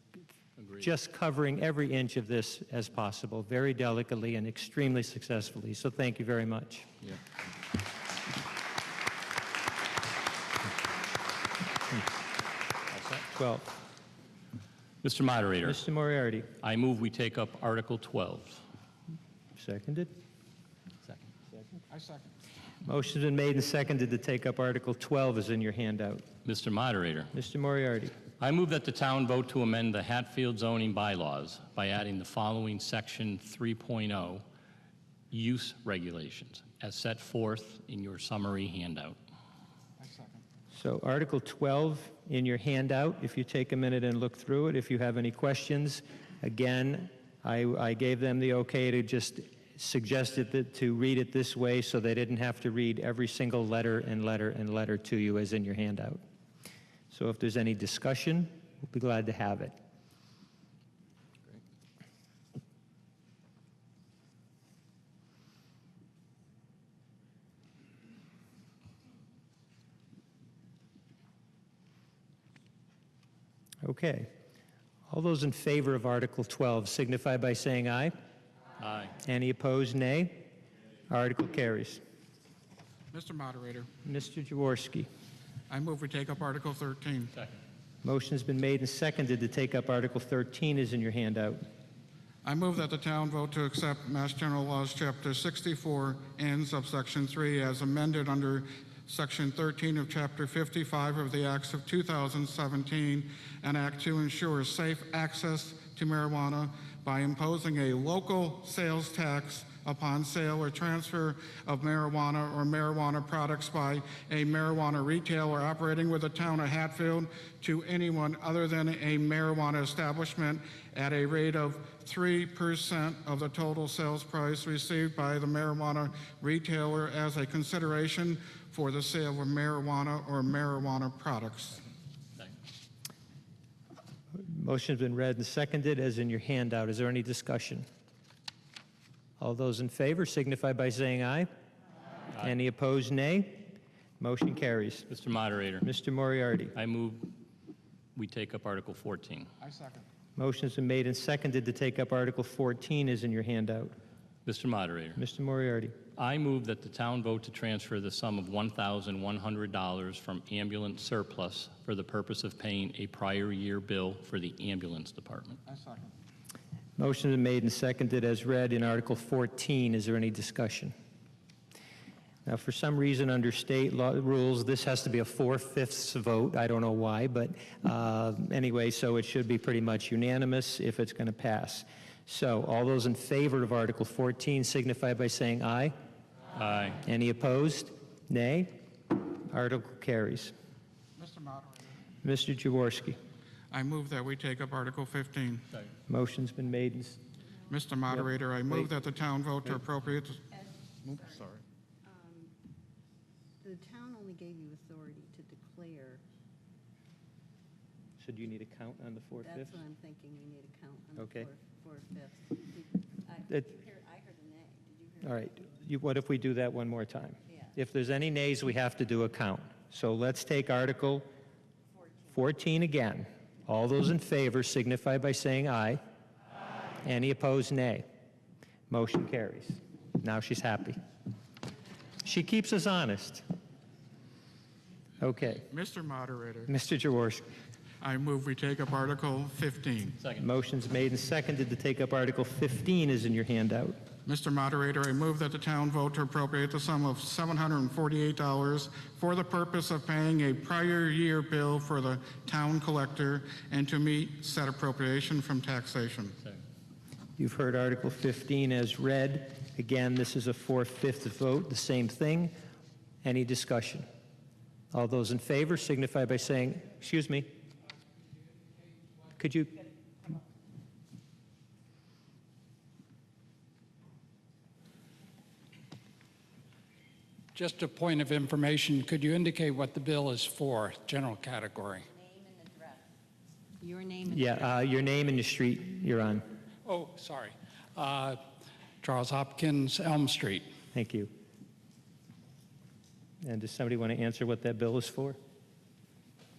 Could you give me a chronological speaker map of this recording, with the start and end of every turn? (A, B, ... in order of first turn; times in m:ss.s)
0:00.8-0:06.9 A
0:13.3-0:13.7 A
0:15.0-0:15.8 B
0:15.6-0:16.5 A
0:16.6-0:18.6 B
0:19.6-0:20.1 A
0:21.9-0:22.3 C
0:22.8-0:26.3 A
0:26.4-0:27.3 B
0:27.3-0:28.2 A
0:28.4-0:34.4 B
0:35.3-0:39.2 B
0:40.0-0:40.4 C
0:40.7-0:56.2 A
0:57.1-0:59.8 A
1:13.8-1:14.3 A
1:15.1-1:18.1 A
1:18.8-1:19.1 B
1:19.2-1:20.5 A
1:21.1-1:22.0 A
1:23.1-1:23.9 C
1:24.0-1:25.1 A
1:25.7-1:27.4 C
1:28.0-1:31.7 A
1:32.4-2:11.9 C
2:14.4-2:17.9 A
2:19.4-2:21.5 A
2:22.4-2:25.1 A
2:25.1-2:25.9 B
2:25.8-2:26.8 A
2:26.8-2:27.3 B
2:28.2-2:29.5 B
2:29.6-2:30.1 C
2:30.4-2:34.0 A
2:34.4-2:35.2 B
2:35.2-2:36.0 A
2:36.2-2:45.6 B
2:45.7-2:46.1 C
2:47.0-2:50.9 A
2:52.5-3:05.9 A
3:06.5-3:07.0 B
3:07.0-3:10.5 A
3:11.2-3:12.0 C
3:12.2-3:13.2 A
3:13.7-3:15.7 C
3:16.1-3:17.2 A
3:17.7-3:20.5 C
3:18.1-3:18.9 A
3:20.6-3:21.5 D
3:21.1-3:21.6 C
3:22.1-3:22.5 D
3:23.6-3:26.2 D
3:28.2-3:29.8 A
3:29.4-3:35.7 D
3:31.2-3:31.5 A
3:35.2-3:41.3 A
3:42.3-3:46.0 A
3:47.0-3:48.1 A
3:48.9-3:51.0 A
3:52.2-3:53.4 A
3:55.2-3:55.7 A
3:55.7-3:56.7 C
3:56.7-3:57.4 A
3:58.0-4:00.2 C
4:00.2-4:00.4 B
4:00.4-4:04.0 A
4:04.3-4:16.4 C
4:17.4-4:22.5 A
4:23.2-4:24.1 A
4:24.9-4:27.5 A
4:29.4-4:29.8 A
4:37.5-4:42.1 E
4:42.1-4:43.0 D
4:43.8-4:44.6 D
4:44.3-4:46.5 A
4:46.8-4:48.4 E
4:49.0-4:50.7 E
4:50.9-4:51.3 A
4:53.4-4:55.4 A